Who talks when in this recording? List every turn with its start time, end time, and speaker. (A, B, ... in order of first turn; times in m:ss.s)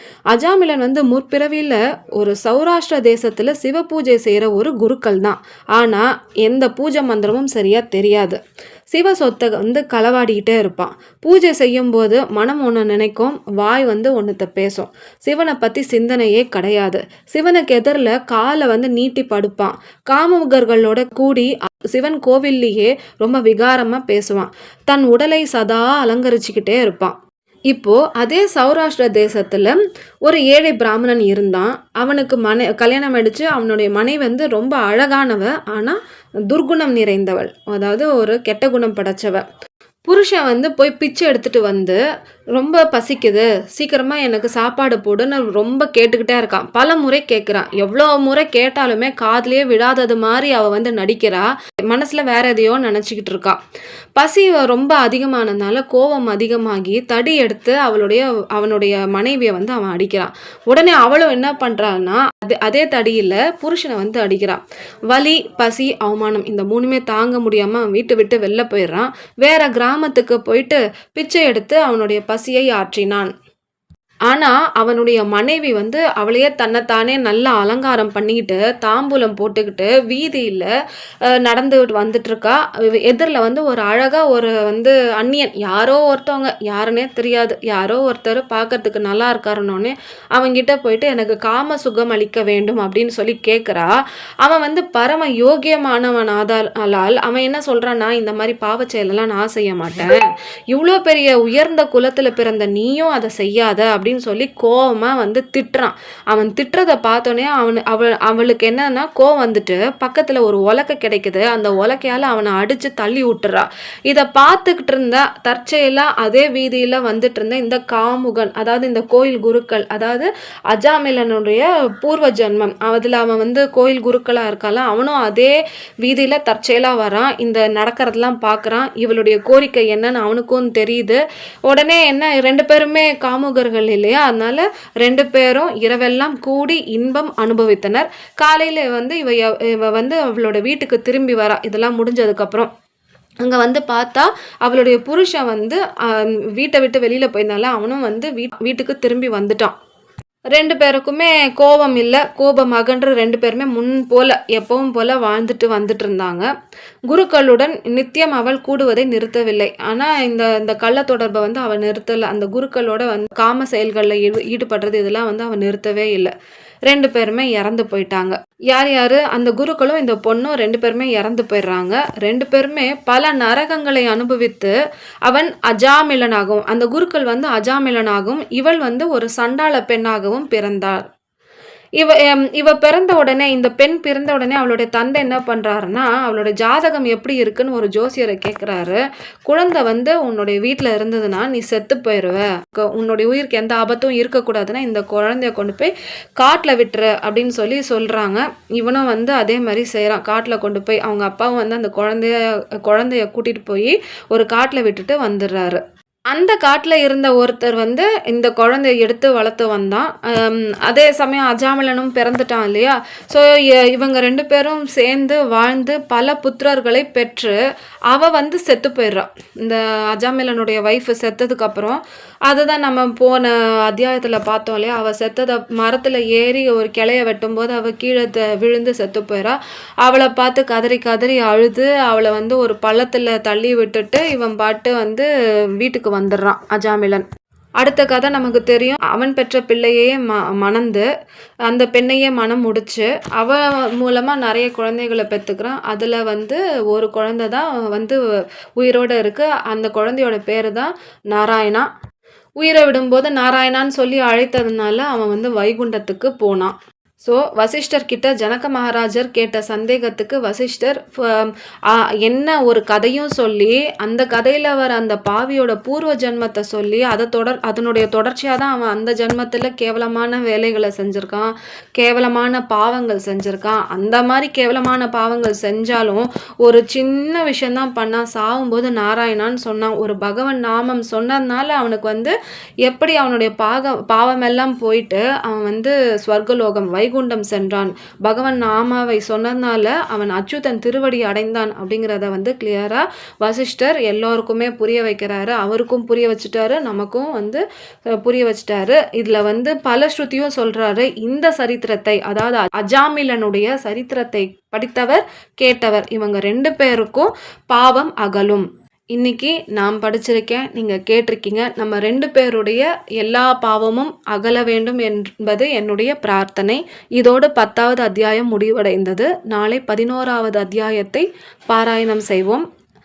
0:00.3-0:08.4 A
0:08.9-0:27.1 A
0:27.7-0:39.4 A
0:40.1-0:42.0 A
0:42.5-0:53.6 A
0:54.2-1:13.3 A
1:14.3-1:20.7 A
1:21.4-1:33.9 A
1:34.4-1:40.2 A
1:40.7-2:22.7 A
2:23.4-2:29.7 A
2:30.5-2:36.5 A
2:37.1-2:46.3 A
2:46.9-2:54.7 A
2:55.3-3:01.0 A
3:02.0-3:37.6 A
3:38.1-3:55.3 A
3:55.8-3:57.2 A
3:57.8-4:01.1 A
4:01.7-4:08.2 A
4:08.8-4:11.9 A
4:12.6-4:42.4 A
4:42.9-4:57.6 A
4:58.2-5:22.6 A